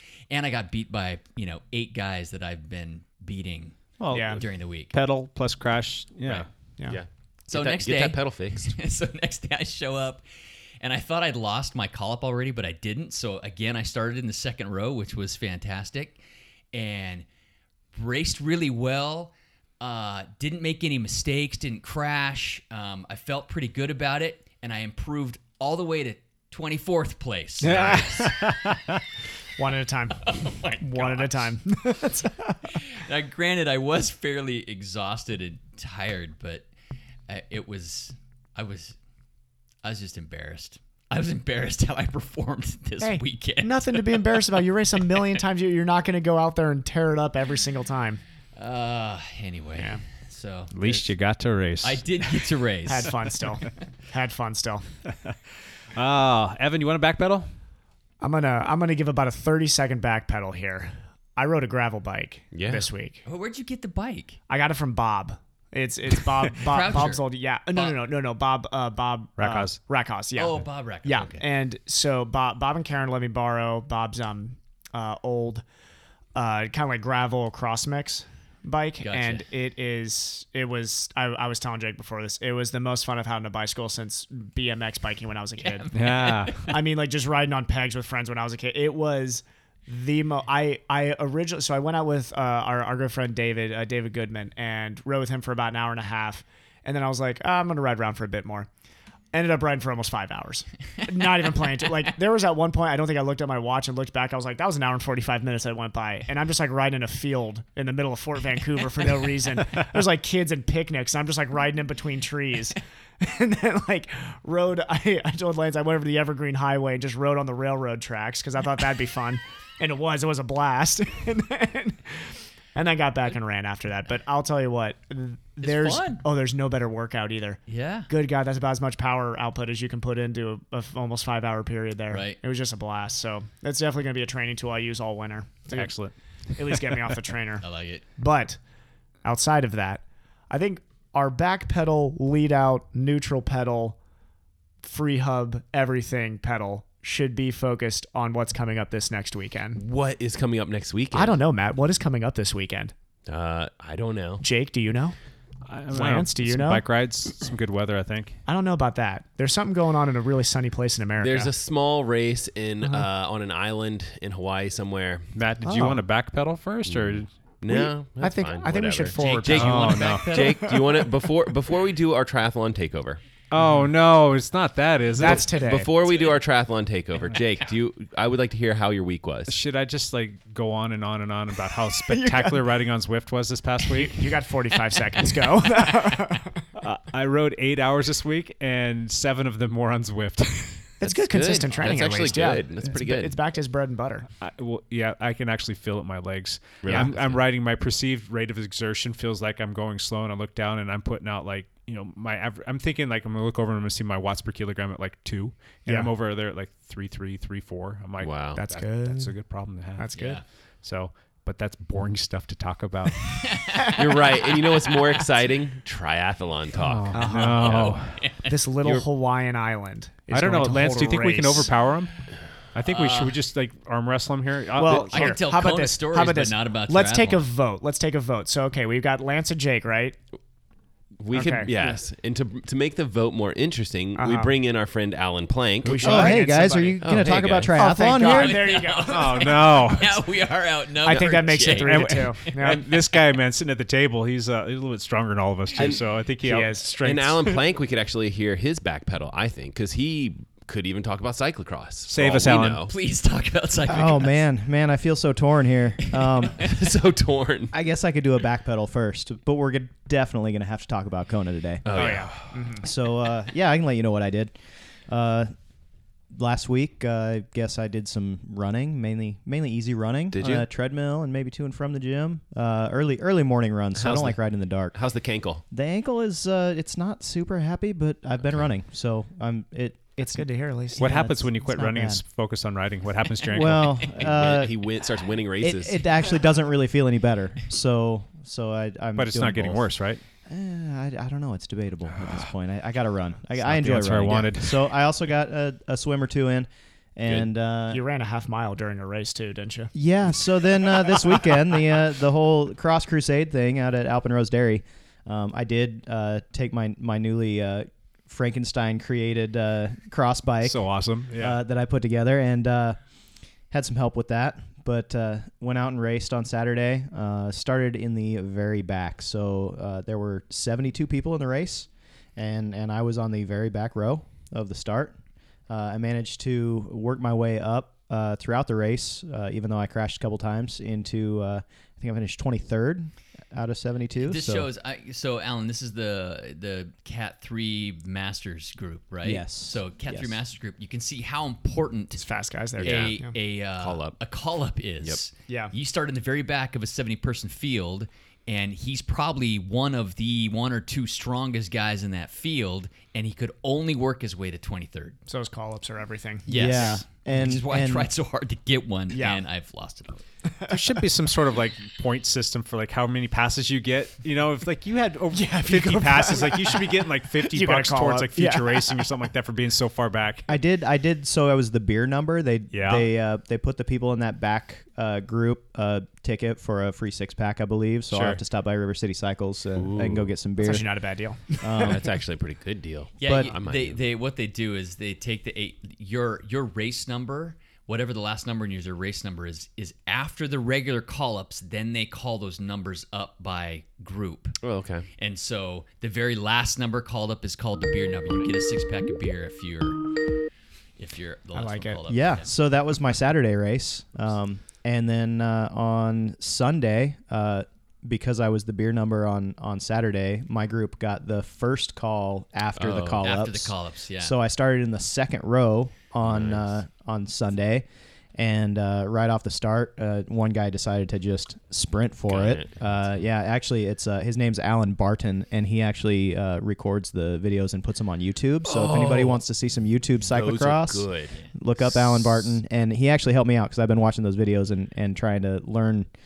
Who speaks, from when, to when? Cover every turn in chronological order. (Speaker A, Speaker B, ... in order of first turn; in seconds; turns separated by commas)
Speaker A: 0.3-4.9, Speaker B: 4.0-4.4, Speaker C: 4.1-4.4, Speaker B: 4.9-6.5, Speaker D: 6.9-8.8, Speaker A: 7.5-10.2, Speaker A: 10.8-16.2, Speaker A: 16.7-17.2, Speaker A: 17.9-28.4, Speaker B: 27.6-29.0, Speaker C: 27.7-28.0, Speaker C: 29.6-32.6, Speaker A: 30.2-31.5, Speaker A: 32.7-36.6, Speaker A: 37.3-39.0, Speaker A: 39.8-44.3, Speaker C: 43.0-48.2, Speaker A: 48.5-51.1, Speaker B: 50.7-52.0, Speaker A: 51.8-53.2, Speaker C: 52.8-54.9, Speaker B: 55.9-57.5, Speaker C: 58.2-63.2, Speaker D: 62.5-62.9, Speaker A: 63.2-64.4, Speaker C: 64.5-75.6, Speaker A: 66.6-68.0, Speaker B: 69.4-69.8, Speaker A: 70.3-71.4, Speaker C: 76.3-85.9, Speaker A: 79.0-79.4, Speaker A: 85.6-86.8, Speaker B: 85.9-86.7, Speaker C: 86.6-98.7, Speaker C: 99.3-136.0, Speaker A: 125.6-126.2, Speaker A: 127.7-128.1, Speaker A: 132.1-132.4, Speaker B: 135.7-137.1, Speaker C: 136.6-138.6, Speaker A: 137.6-138.0, Speaker C: 139.2-144.0, Speaker C: 144.8-149.8, Speaker D: 149.7-151.4, Speaker C: 151.1-152.9, Speaker D: 153.3-154.4, Speaker C: 154.4-155.2, Speaker B: 155.7-158.4, Speaker C: 155.9-156.8, Speaker C: 158.5-161.5, Speaker D: 161.2-165.3, Speaker C: 162.8-163.1, Speaker B: 165.3-167.3, Speaker C: 165.6-166.0, Speaker D: 166.8-173.2, Speaker C: 167.7-171.1, Speaker A: 169.2-170.7, Speaker B: 169.6-170.3, Speaker B: 173.5-175.5, Speaker C: 175.2-176.1, Speaker D: 175.2-179.5, Speaker B: 179.5-184.4, Speaker C: 182.1-182.6, Speaker C: 183.8-186.7, Speaker B: 186.8-190.9, Speaker C: 191.0-194.3, Speaker D: 191.0-193.3, Speaker B: 194.4-210.1, Speaker D: 196.8-197.2, Speaker C: 205.8-206.1, Speaker D: 208.2-208.6, Speaker C: 208.5-209.3, Speaker C: 210.0-210.4, Speaker A: 210.1-210.4, Speaker B: 210.8-213.3, Speaker A: 213.4-215.2, Speaker D: 213.9-217.9, Speaker B: 216.8-218.2, Speaker C: 217.1-217.8, Speaker A: 217.3-218.5, Speaker C: 218.4-221.7, Speaker B: 220.3-222.2, Speaker B: 222.7-225.4, Speaker A: 222.8-223.3, Speaker C: 224.7-230.2, Speaker A: 224.9-227.4, Speaker D: 231.2-236.4, Speaker C: 231.3-232.0, Speaker C: 234.2-234.6, Speaker C: 235.8-239.7, Speaker E: 236.0-238.6, Speaker D: 237.0-237.7, Speaker A: 238.1-242.3, Speaker B: 239.0-240.2, Speaker C: 241.0-242.9, Speaker B: 241.1-247.5, Speaker D: 245.8-246.0, Speaker C: 246.4-247.0, Speaker D: 247.0-252.9, Speaker B: 252.1-252.9, Speaker A: 252.8-254.4, Speaker E: 253.9-256.6, Speaker D: 256.6-257.7, Speaker E: 257.7-262.2, Speaker D: 261.8-262.7, Speaker C: 261.9-262.9, Speaker E: 262.8-264.5, Speaker E: 265.1-265.5, Speaker E: 266.3-274.9, Speaker D: 270.3-270.6, Speaker D: 273.9-274.4, Speaker D: 274.9-275.6, Speaker E: 275.7-282.2, Speaker C: 280.2-281.5, Speaker B: 281.0-284.2, Speaker E: 283.5-284.8, Speaker D: 284.2-286.0, Speaker E: 285.6-289.9, Speaker B: 289.1-290.2, Speaker E: 290.4-298.0, Speaker B: 293.6-294.9, Speaker C: 297.9-299.9, Speaker E: 299.9-313.0, Speaker B: 310.6-311.6, Speaker E: 313.7-325.1, Speaker E: 325.7-334.7, Speaker A: 334.2-342.2, Speaker E: 339.2-340.4, Speaker C: 342.1-343.3, Speaker D: 342.8-343.2, Speaker A: 342.8-355.2, Speaker D: 343.8-344.2, Speaker C: 345.5-345.7, Speaker C: 355.3-357.0, Speaker E: 356.5-358.1, Speaker A: 356.5-360.2, Speaker C: 359.1-359.4, Speaker C: 360.6-360.9, Speaker B: 360.7-370.5, Speaker C: 365.3-369.1, Speaker E: 370.5-380.9, Speaker B: 372.7-373.1, Speaker B: 378.1-378.4, Speaker D: 379.8-380.4, Speaker C: 380.6-382.0, Speaker E: 381.6-382.0, Speaker D: 381.8-384.0, Speaker A: 383.2-394.6, Speaker E: 383.2-383.5, Speaker D: 394.6-395.1, Speaker A: 395.2-400.1, Speaker A: 401.0-402.5, Speaker C: 401.5-402.0, Speaker E: 402.1-436.1, Speaker D: 412.8-413.2, Speaker A: 413.2-414.3, Speaker D: 416.2-416.6, Speaker D: 422.3-423.1, Speaker D: 428.6-429.4, Speaker D: 430.3-432.5